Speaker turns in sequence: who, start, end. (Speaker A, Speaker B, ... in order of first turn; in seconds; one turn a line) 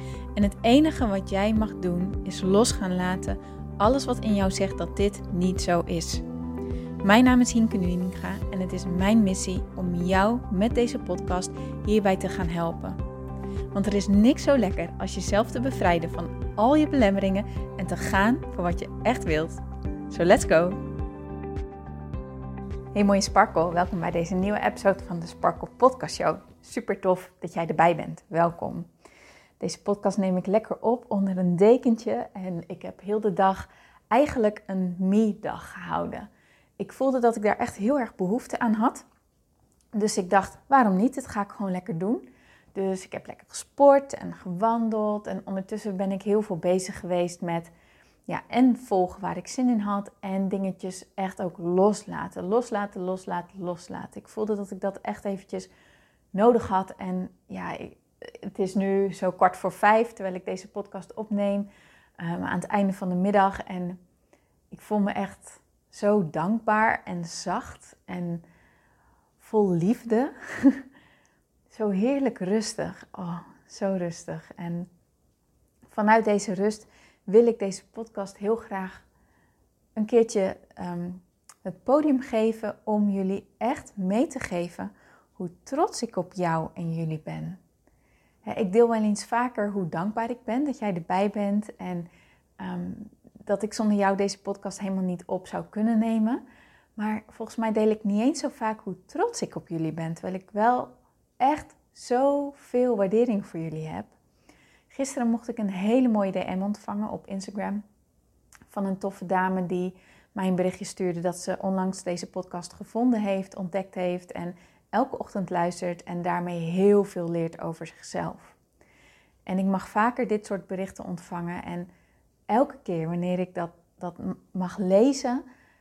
Speaker A: 0.3-6.2
Speaker A: 7.0-13.0
Speaker A: 13.7-20.8
Speaker A: 22.9-28.9
Speaker A: 29.6-39.0
Speaker A: 39.9-47.7
Speaker A: 48.3-55.7
Speaker A: 56.3-64.0
Speaker A: 64.7-68.4
Speaker A: 69.4-70.8
Speaker A: 71.7-74.9
Speaker A: 75.9-79.0
Speaker A: 80.0-87.6
Speaker A: 88.5-96.4
Speaker A: 97.0-104.1
Speaker A: 104.9-107.8
Speaker A: 108.7-118.6
Speaker A: 119.5-121.9
Speaker A: 122.5-125.4